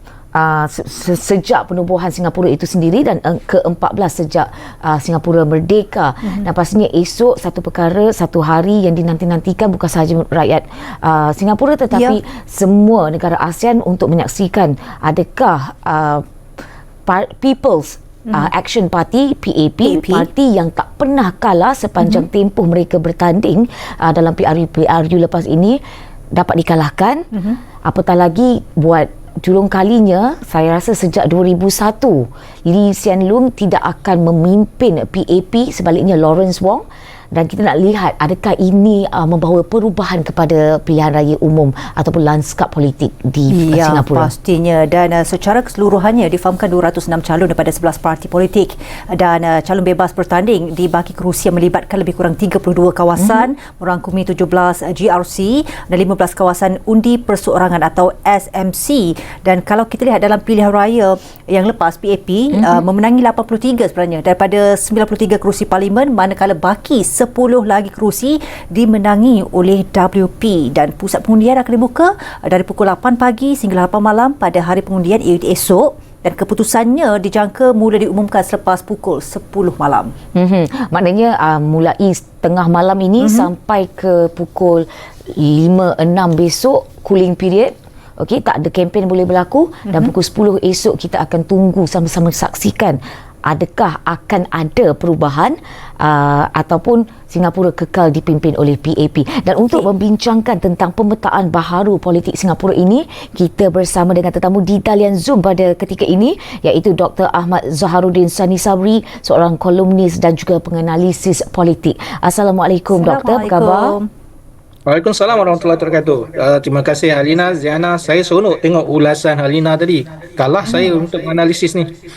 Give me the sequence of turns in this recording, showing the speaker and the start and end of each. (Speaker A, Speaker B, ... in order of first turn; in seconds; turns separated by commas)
Speaker A: 0.3-16.2, Speaker A: 17.1-25.8, Speaker B: 19.8-20.3, Speaker A: 26.3-27.3, Speaker A: 27.8-44.3, Speaker B: 43.5-80.1, Speaker A: 53.2-53.5, Speaker A: 62.5-62.8, Speaker A: 80.3-114.0, Speaker B: 83.2-83.5, Speaker B: 112.9-114.1, Speaker C: 114.9-121.9